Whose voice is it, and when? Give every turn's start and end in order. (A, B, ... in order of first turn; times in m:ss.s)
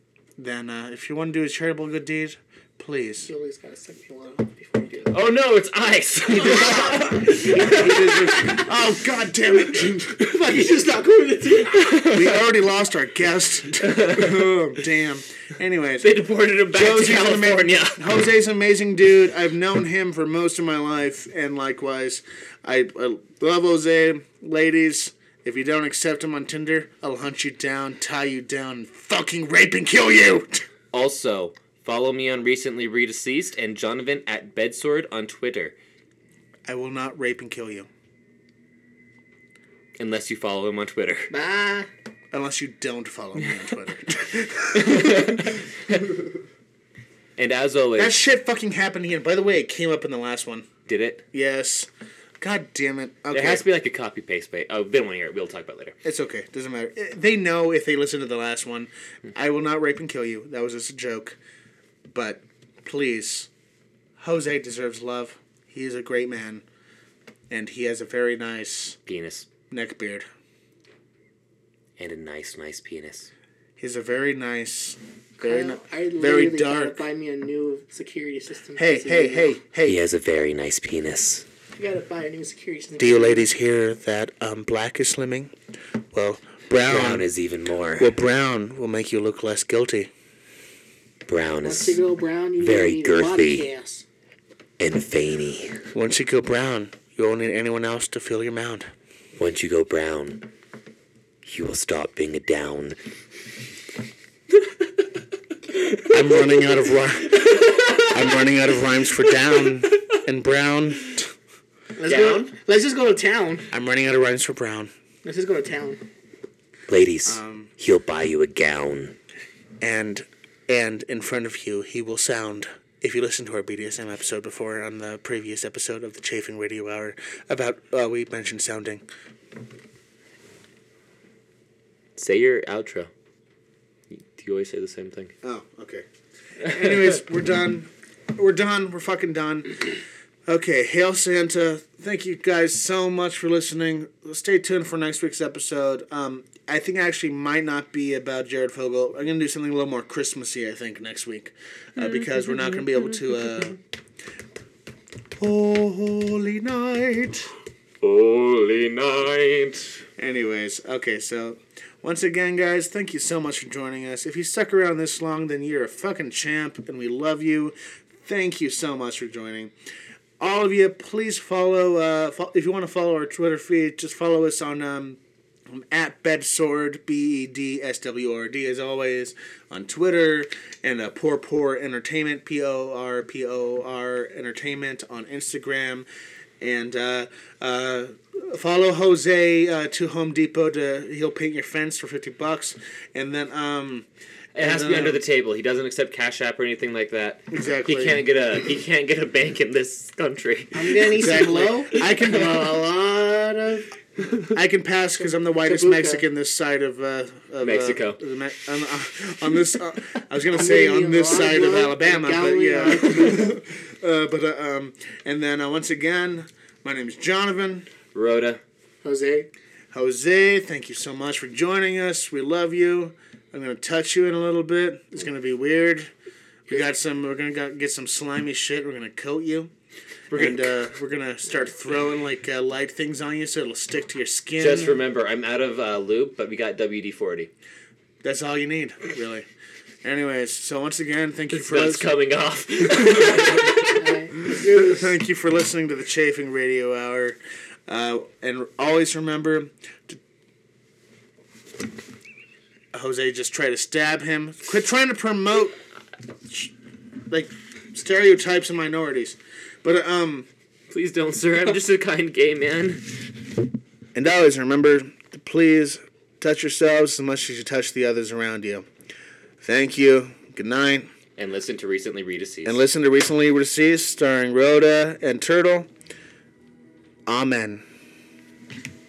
0:00.4-0:03.3 A
0:03.2-0:05.1 B
0:05.1-0:08.6 C
0:06.4-0:08.7 B
0:06.5-0:10.3 A
0:10.2-0:12.1 B
0:11.6-0:12.4 C
0:12.0-0:16.1 A
0:13.8-0:14.5 C
0:16.0-0:18.0 C
0:16.7-0:30.6 A
0:30.9-0:35.7 C
0:36.7-0:37.9 A
0:40.0-0:41.3 C
0:41.3-0:41.9 B
0:42.3-0:45.5 A
0:44.7-0:46.1 C
0:47.4-0:48.2 C
0:48.0-0:50.7 A
0:50.9-0:51.2 C
0:51.3-0:51.9 A
0:52.4-0:53.6 A
0:53.3-0:55.9 C
0:56.0-1:01.4 A
1:02.1-1:03.5 A
1:04.2-1:06.6 A
1:07.5-1:09.0 A
1:09.0-1:09.5 C
1:09.7-1:10.2 A
1:12.0-1:13.3 C
1:13.8-1:17.0 A
1:15.4-1:19.5 B
1:18.8-1:20.0 A
1:19.8-1:21.4 C
1:21.8-1:23.5 B
1:23.0-1:25.5 A
1:26.1-1:27.3 A
1:26.8-1:28.1 C
1:28.0-1:30.1 A
1:31.3-1:32.0 C
1:31.6-1:34.0 B
1:32.6-1:33.7 C
1:34.8-1:35.9 C
1:35.9-1:38.9 A
1:39.4-1:40.5 C
1:41.4-1:43.0 C
1:46.0-1:51.3 A
1:47.4-1:48.1 C
1:52.0-1:53.7 B
1:52.1-1:52.4 C
1:53.7-1:54.9 A
1:55.2-1:56.0 B
1:56.9-1:59.2 C
1:57.2-1:57.7 A
1:59.8-2:09.0 A
2:12.2-2:13.1 C
2:14.1-2:15.3 C
2:15.4-2:16.0 A
2:16.6-2:33.8 A
2:32.4-2:33.0 C
2:35.4-2:37.5 A
2:38.0-2:40.0 C
2:40.2-2:49.7 A
2:50.4-3:06.0 A
3:06.6-3:14.0 A
3:14.5-3:22.1 C
3:14.6-3:15.2 A
3:17.5-3:18.2 A
3:20.7-3:23.9 B
3:21.2-3:22.8 A
3:24.5-3:37.9 A
3:25.5-3:26.2 B
3:27.6-3:28.2 C
3:30.5-3:33.6 B
3:38.1-3:38.6 C
3:39.0-3:39.5 B
3:39.9-3:46.1 A
3:46.7-3:49.7 A
3:50.3-3:50.9 C
3:50.3-3:55.0 A
3:54.6-3:57.5 C
3:58.2-3:59.4 A
4:00.0-4:02.1 A
4:01.5-4:04.2 C
4:03.0-4:03.8 A
4:04.0-4:05.1 B
4:04.4-4:10.2 A
4:12.9-4:15.8 A
4:17.3-4:20.5 A
4:20.9-4:23.0 C
4:24.1-4:28.9 A
4:29.6-4:31.1 A
4:31.4-4:32.8 C
4:32.6-4:35.9 A
4:37.2-4:37.8 A